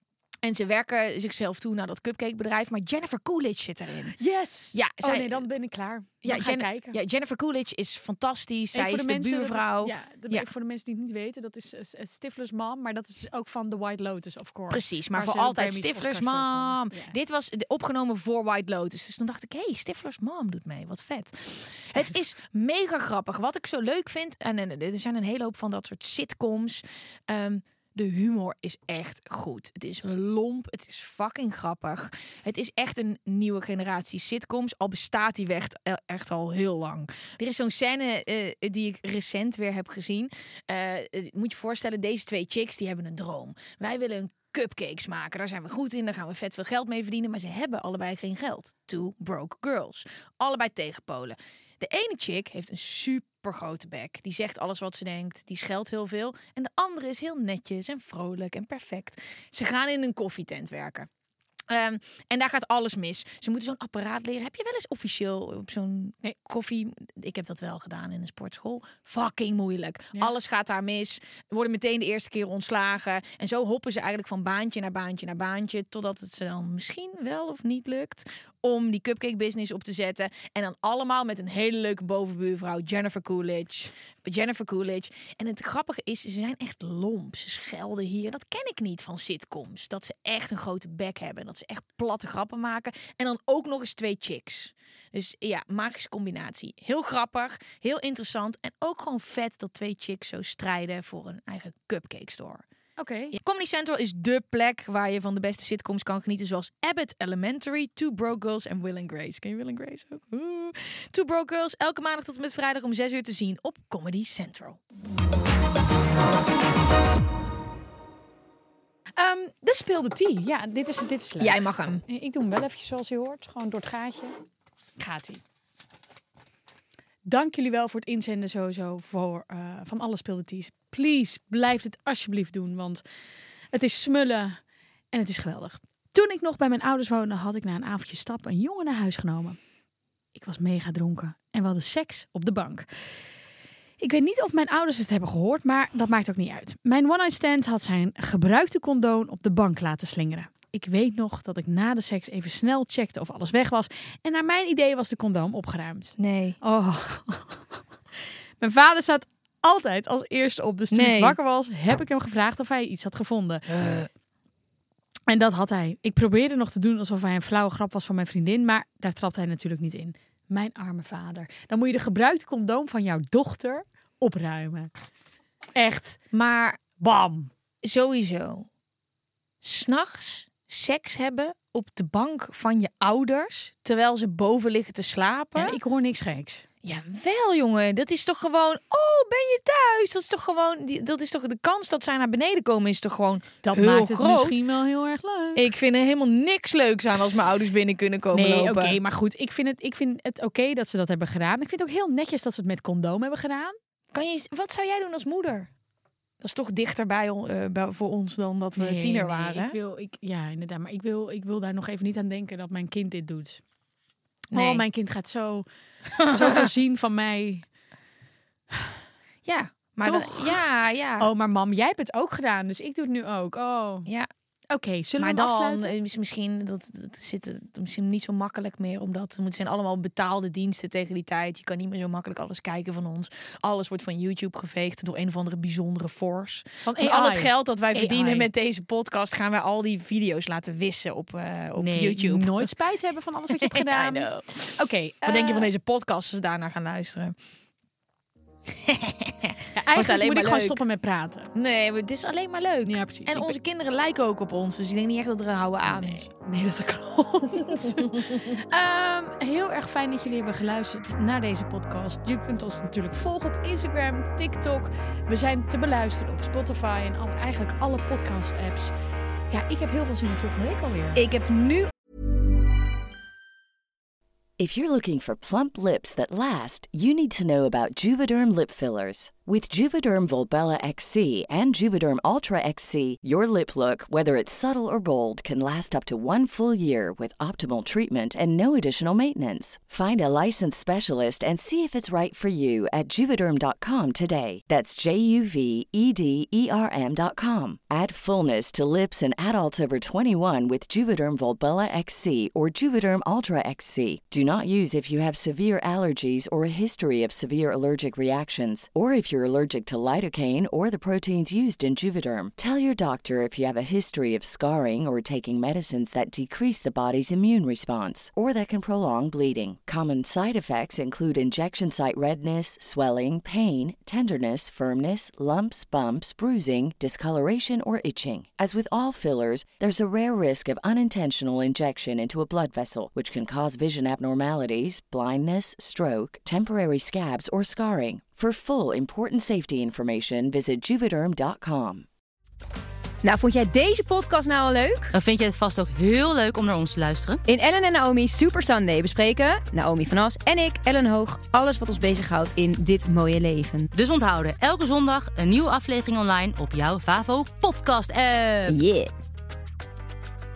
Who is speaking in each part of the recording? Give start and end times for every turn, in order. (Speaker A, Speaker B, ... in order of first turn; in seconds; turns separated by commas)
Speaker A: 0.4-4.2, Speaker B: 4.2-7.0, Speaker A: 4.7-5.4, Speaker A: 6.2-10.5, Speaker B: 8.7-17.1, Speaker A: 14.7-61.1, Speaker A: 61.7-102.7, Speaker B: 103.0-103.4, Speaker A: 103.3-114.8, Speaker B: 119.2-124.4, Speaker A: 121.4-122.0, Speaker B: 125.0-125.4, Speaker B: 127.2-139.6, Speaker B: 140.3-143.3, Speaker B: 144.0-157.7, Speaker A: 156.2-156.6, Speaker B: 158.6-163.7, Speaker A: 160.9-161.4, Speaker A: 163.7-164.1, Speaker B: 165.3-174.9, Speaker B: 175.8-176.2, Speaker A: 176.3-176.8, Speaker B: 177.0-177.5, Speaker A: 177.8-178.7, Speaker A: 179.6-185.8, Speaker B: 185.6-186.7, Speaker A: 186.8-194.6, Speaker B: 193.6-195.7, Speaker A: 195.6-199.0, Speaker B: 198.3-203.8, Speaker A: 204.1-205.7, Speaker A: 206.4-209.8, Speaker B: 208.8-213.6, Speaker A: 214.5-214.8, Speaker B: 214.5-215.7, Speaker A: 216.2-216.7, Speaker B: 216.2-217.7, Speaker A: 219.4-221.3, Speaker B: 220.0-220.7, Speaker B: 221.2-224.1, Speaker B: 224.7-225.9, Speaker A: 225.2-242.7, Speaker B: 236.8-238.5, Speaker B: 241.8-245.7, Speaker A: 243.5-244.7, Speaker A: 245.2-247.4, Speaker A: 248.8-250.8, Speaker B: 249.8-251.5, Speaker A: 251.6-256.3, Speaker B: 252.9-253.6, Speaker B: 256.4-268.9, Speaker B: 269.5-271.2, Speaker A: 271.2-271.9, Speaker C: 274.6-342.1, Speaker D: 343.2-345.1, Speaker E: 345.1-347.4, Speaker D: 347.5-353.9, Speaker E: 353.9-358.8, Speaker D: 358.7-359.1